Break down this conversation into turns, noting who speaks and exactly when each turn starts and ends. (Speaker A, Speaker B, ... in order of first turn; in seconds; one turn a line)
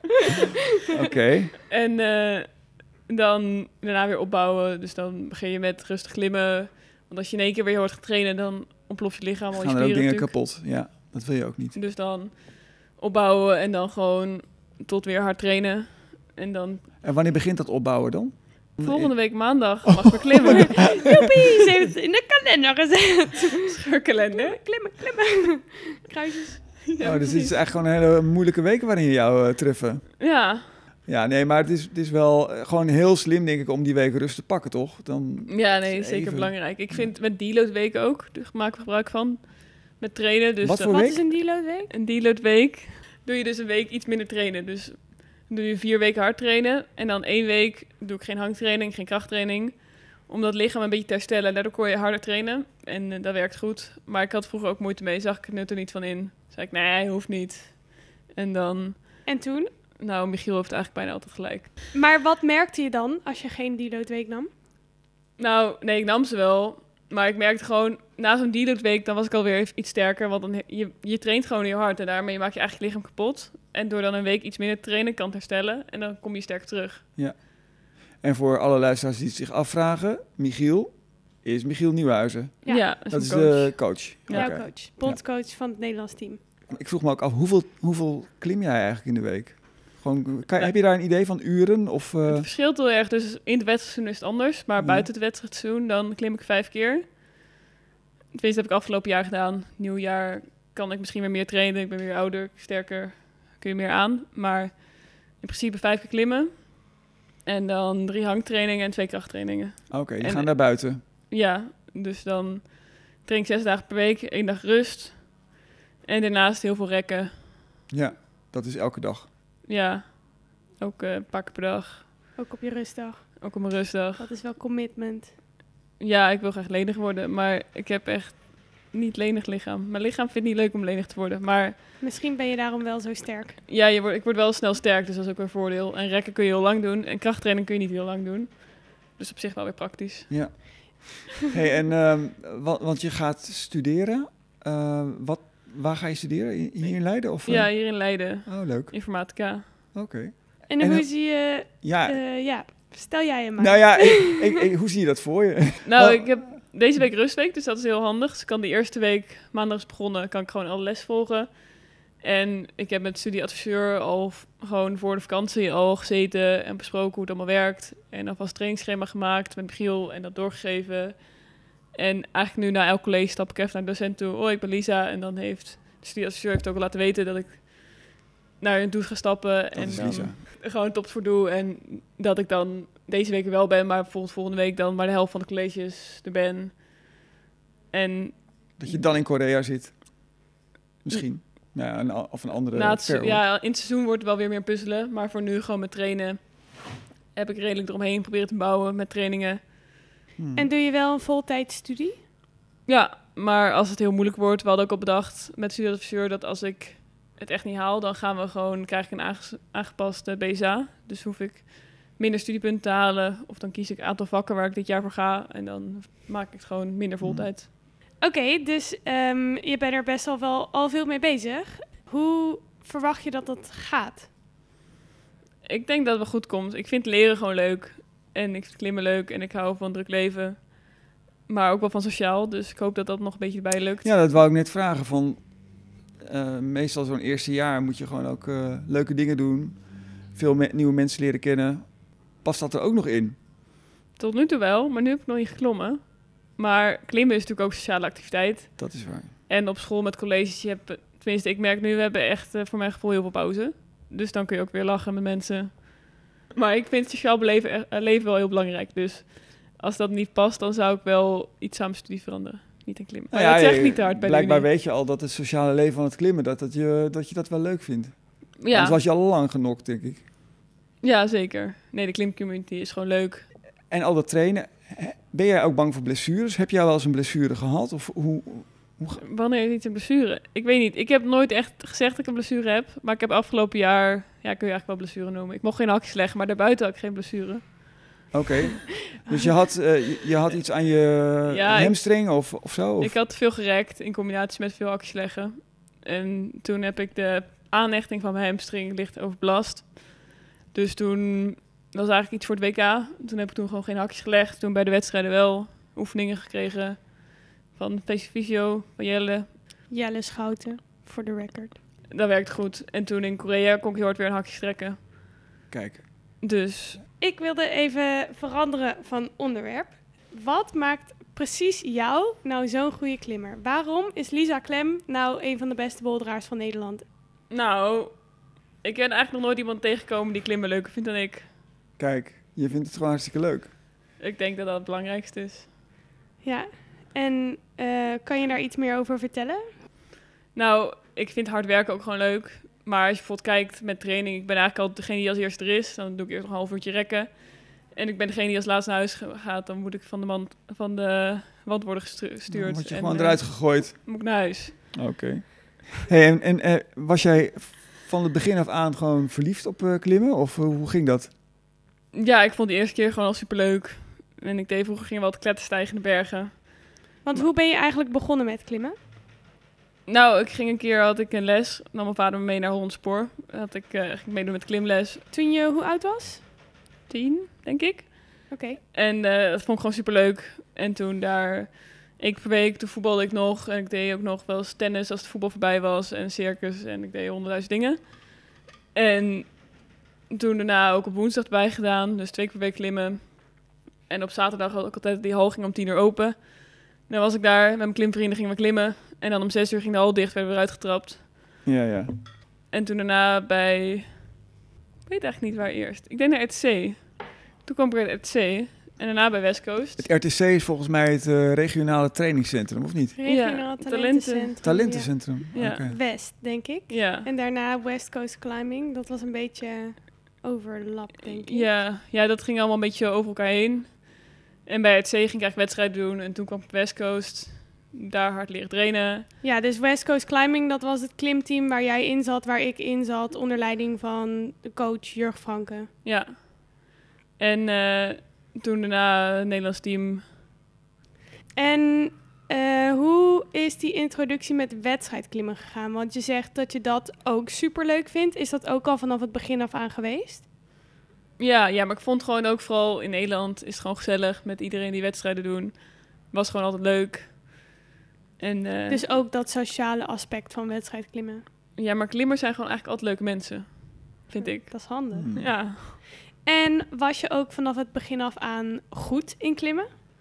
Speaker A: 0.9-1.5
Speaker B: 1.7-10.3
Speaker A: 9.5-11.8
Speaker B: 11.7-16.8
Speaker A: 17.0-20.8
Speaker B: 18.8-20.9
Speaker C: 20.7-23.8
Speaker B: 23.7-24.6
Speaker C: 24.3-26.9
Speaker B: 26.9-27.6
Speaker A: 27.0-30.2
Speaker B: 30.2-30.7
Speaker A: 31.1-37.1
Speaker B: 35.5-41.4
Speaker A: 40.6-41.2
Speaker C: 40.9-41.9
Speaker B: 41.9-59.3
Speaker C: 59.2-59.7
Speaker B: 60.0-61.8
Speaker C: 61.9-64.5
Speaker B: 65.4-77.0
Speaker A: 77.2-85.2
Speaker B: 82.7-84.6
Speaker C: 84.3-86.4
Speaker A: 86.7-92.5
Speaker B: 92.3-97.2
Speaker A: 94.8-95.1
Speaker B: 98.3-106.9
Speaker B: 107.4-115.5
Speaker A: 109.9-111.0
Speaker B: 116.0-117.4
Speaker A: 117.9-119.3
Speaker B: 119.7-122.1
Speaker C: 122.4-123.6
Speaker B: 123.4-124.3
Speaker C: 124.2-125.3
Speaker B: 126.0-131.8
Speaker C: 132.0-133.6
Speaker B: 133.7-140.7
Speaker A: 140.3-152.2
Speaker B: 147.4-149.7
Speaker C: 150.7-154.5
Speaker A: 153.6-156.6
Speaker B: 155.8-186.8
Speaker A: 179.7-180.4
Speaker B: 187.9-189.0
Speaker A: 188.8-190.2
Speaker A: 191.0-193.4
Speaker B: 192.7-199.7
Speaker A: 200.4-200.7
Speaker C: 200.6-202.2
Speaker B: 202.9-217.7
Speaker A: 217.2-217.5
Speaker C: 218.2-224.3
Speaker B: 225.7-234.1
Speaker A: 234.0-243.4
Speaker B: 244.2-264.7
Speaker A: 248.8-249.3
Speaker A: 263.3-270.2
Speaker B: 268.6-269.0
Speaker B: 271.0-273.4
Speaker A: 273.9-279.2
Speaker B: 279.2-288.2
Speaker A: 288.3-293.2
Speaker B: 291.4-292.1
Speaker B: 293.0-309.5
Speaker C: 309.9-311.8
Speaker B: 312.1-315.1
Speaker A: 315.7-316.1
Speaker B: 316.4-317.0
Speaker C: 317.2-327.0
Speaker B: 327.5-328.3
Speaker B: 328.8-331.5
Speaker A: 332.0-333.7
Speaker B: 334.2-335.7
Speaker C: 336.4-339.7
Speaker B: 340.5-354.9
Speaker A: 352.5-361.3
Speaker B: 362.1-367.4
Speaker C: 367.2-368.9
Speaker B: 370.1-375.2
Speaker C: 375.3-376.4
Speaker B: 377.1-401.5
Speaker C: 378.5-378.8
Speaker A: 401.6-402.1
Speaker B: 402.7-404.4
Speaker B: 405.1-410.1
Speaker A: 410.0-413.2
Speaker C: 413.1-421.7
Speaker B: 413.2-414.5
Speaker A: 414.6-416.0
Speaker B: 415.5-415.9
Speaker B: 416.9-417.3
Speaker B: 421.3-429.3
Speaker C: 429.4-435.9
Speaker B: 436.0-440.2
Speaker C: 441.5-450.4
Speaker B: 451.4-457.6
Speaker B: 458.4-459.0
Speaker C: 458.9-461.4
Speaker B: 461.8-466.0
Speaker C: 464.3-469.9
Speaker A: 465.1-465.5